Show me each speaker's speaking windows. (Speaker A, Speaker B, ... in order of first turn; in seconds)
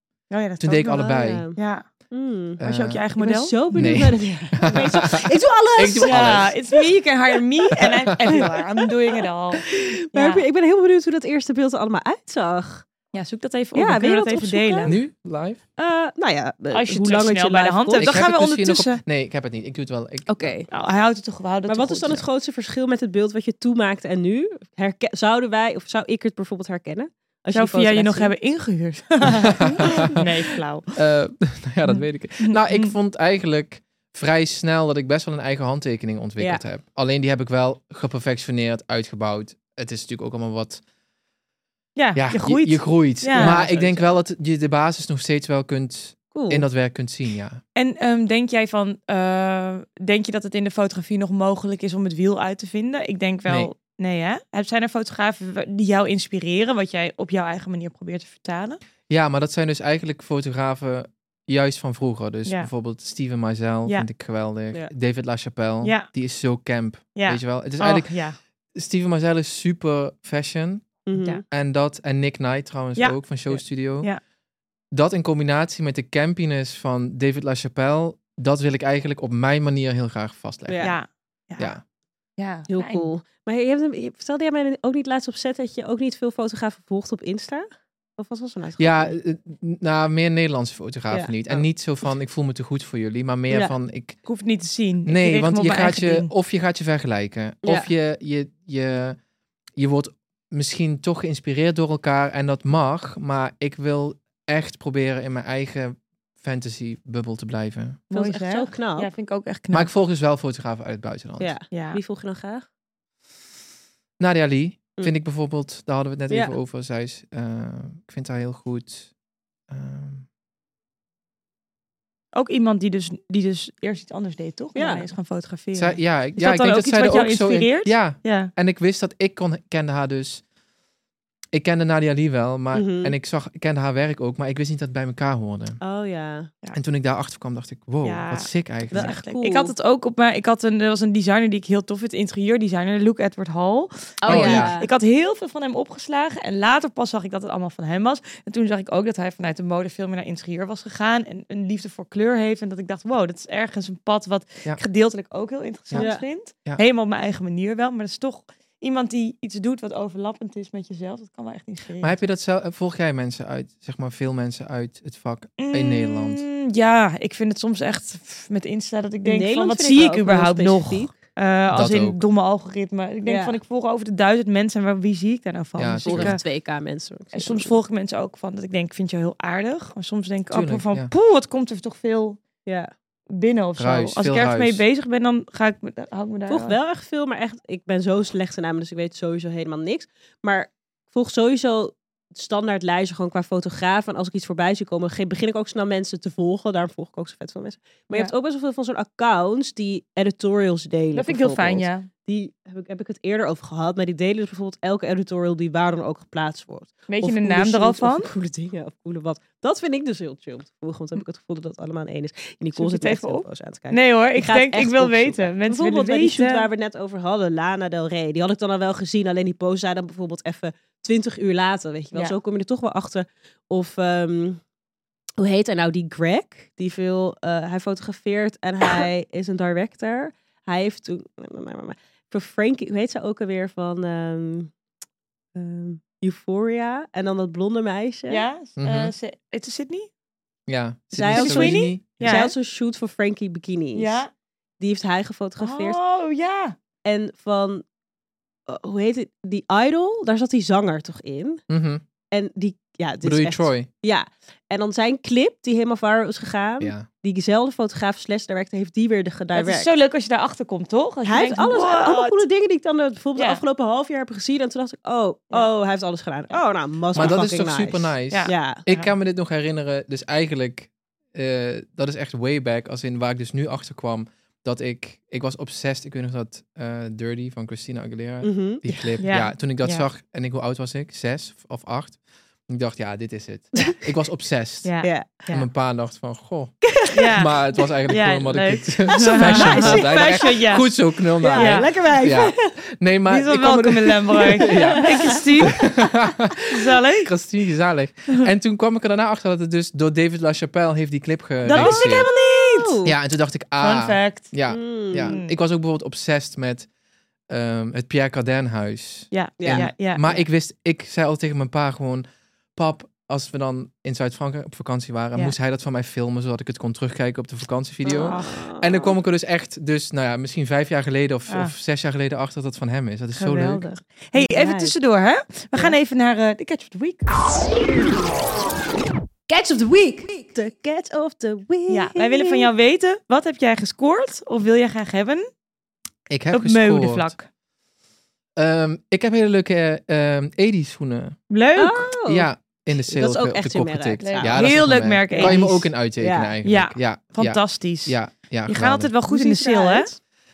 Speaker A: 0.3-1.8, 2.6-3.6, 6.0-10.4, 13.1-15.0, 16.7-19.0, 20.7-22.2, 27.5-30.9, 31.9-32.9, 42.0-43.6, 47.8-58.8, 65.8-66.1, 67.2-68.4, 71.2-71.4, 73.0-74.2, 80.8-81.7, 82.4-83.1, 94.3-96.3, 108.1-109.9, 111.7-112.0, 122.3-128.5, 138.0-162.2, 165.6-176.4, 177.3-182.4, 183.3-186.8, 201.2-202.1, 207.1-208.3, 212.8-216.7, 238.3-240.1, 241.3-242.5, 243.9-244.3, 245.6-246.8, 259.5-262.4, 263.4-263.6, 268.3-269.1, 279.2-280.1, 284.9-285.7, 287.1-290.9, 291.5-291.9, 293.3-295.9, 296.7-297.3, 301.7-303.0, 303.8-304.5, 305.2-305.6, 309.3-310.3, 318.1-318.4, 323.4-327.4, 331.9-335.5, 336.5-337.4, 341.5-342.1, 344.2-345.9, 346.6-350.1
Speaker B: 0.6-1.4, 2.6-3.0, 3.7-6.5, 7.8-8.5, 14.9-15.6, 18.0-20.6, 29.4-30.2, 31.0-40.8, 42.1-47.6, 59.1-68.1, 68.8-70.9, 71.5-74.1, 74.9-80.9, 81.6-81.8, 88.8-94.2, 95.1-99.2, 99.8-108.0, 109.7-111.5, 114.2-119.1, 119.7-120.3, 125.8-130.4, 131.5-135.8, 136.7-139.2, 144.3-144.8, 162.0-166.5, 171.7-172.2, 175.8-176.4, 180.5-181.1, 183.8-184.8, 238.8-239.1, 240.7-242.4, 251.7-252.0, 253.2-253.9, 256.8-257.1, 267.2-284.9, 285.5-302.3, 303.1-306.9, 307.5-323.9, 336.3-337.3, 338.6-341.4, 342.3-349.1
Speaker C: 0.9-1.6, 2.1-2.6, 3.2-6.8, 8.2-12.9, 13.8-15.0, 15.8-18.2, 20.3-20.7, 21.7-28.3, 29.8-30.1, 43.3-44.1, 46.3-46.7, 71.1-71.4, 80.7-81.0, 82.7-89.2, 91.1-91.6, 97.6-97.9, 108.1-109.1, 111.4-112.7, 116.3-116.5, 124.8-125.1, 132.7-133.2, 135.8-136.5, 138.9-139.7, 144.2-144.9, 156.0-156.2, 169.2-171.2, 173.2-173.6, 176.1-177.8, 182.7-182.9, 186.5-224.6, 225.4-234.7, 235.6-238.4, 241.1-244.2, 244.8-246.0, 247.1-247.8, 248.7-251.6, 252.3-259.9, 261.3-268.9, 278.4-279.2, 285.0-285.6, 286.8-287.9, 289.1-290.6, 291.4-292.7, 293.6-296.0, 301.7-303.1, 304.7-305.4, 309.6-310.4, 318.1-319.1, 323.8-324.9, 329.5-332.7, 341.8-344.6, 345.3-346.5, 349.3-350.2